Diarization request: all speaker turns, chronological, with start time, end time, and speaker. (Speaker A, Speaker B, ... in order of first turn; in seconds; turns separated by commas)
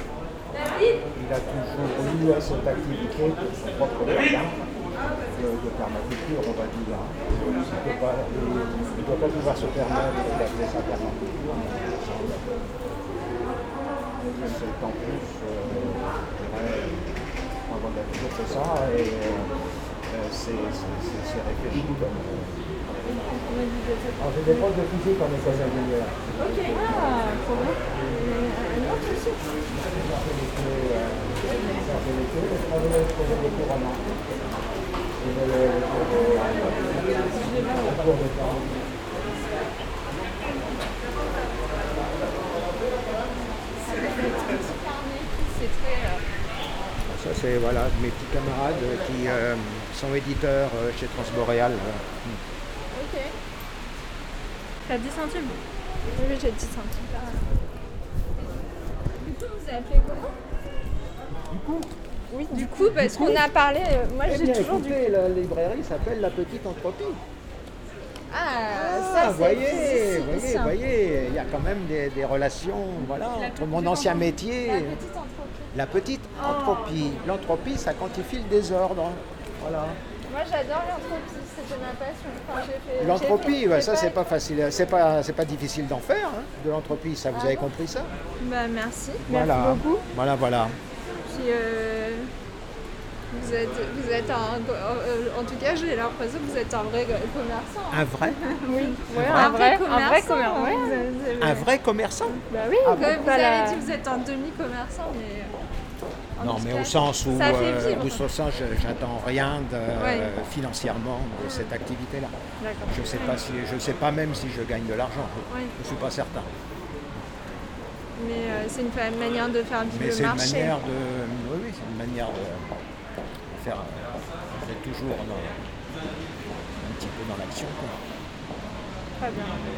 Speaker A: 0.7-0.9, Speaker B: 1.1-4.5, Speaker B: 5.3-12.6, Speaker B: 14.2-17.0, Speaker B: 17.7-19.5, Speaker B: 20.1-23.2, Speaker A: 23.1-24.2, Speaker B: 24.2-27.4, Speaker A: 26.4-29.5, Speaker C: 27.3-27.7, Speaker B: 29.7-34.0, Speaker B: 35.2-39.0, Speaker C: 37.4-38.0, Speaker A: 43.3-46.2, Speaker B: 47.0-52.4, Speaker A: 52.9-53.3, Speaker C: 54.9-55.6, Speaker A: 56.1-57.4, Speaker A: 59.1-60.3, Speaker B: 61.5-61.9, Speaker A: 62.3-65.2, Speaker C: 62.5-63.3, Speaker B: 63.0-63.4, Speaker B: 64.2-67.2, Speaker A: 68.3-70.8, Speaker B: 68.7-75.0, Speaker C: 73.1-74.3, Speaker A: 74.6-75.7, Speaker B: 75.7-80.0, Speaker A: 80.3-84.2, Speaker B: 83.0-88.1, Speaker A: 87.3-87.7, Speaker A: 88.4-89.2, Speaker B: 89.2-90.8, Speaker C: 89.2-90.0, Speaker A: 91.2-92.3, Speaker A: 93.3-101.7, Speaker B: 97.9-98.4, Speaker C: 98.7-101.1, Speaker B: 99.1-99.6, Speaker B: 101.4-103.1, Speaker C: 102.5-104.0, Speaker A: 102.9-105.5, Speaker A: 106.4-108.2, Speaker B: 106.4-112.3, Speaker A: 110.0-110.3, Speaker A: 111.4-111.7, Speaker C: 112.6-112.9, Speaker B: 112.9-116.5, Speaker A: 115.5-115.7, Speaker A: 118.2-120.8, Speaker B: 119.9-122.8, Speaker B: 123.5-125.6, Speaker B: 126.5-128.0, Speaker C: 129.2-129.6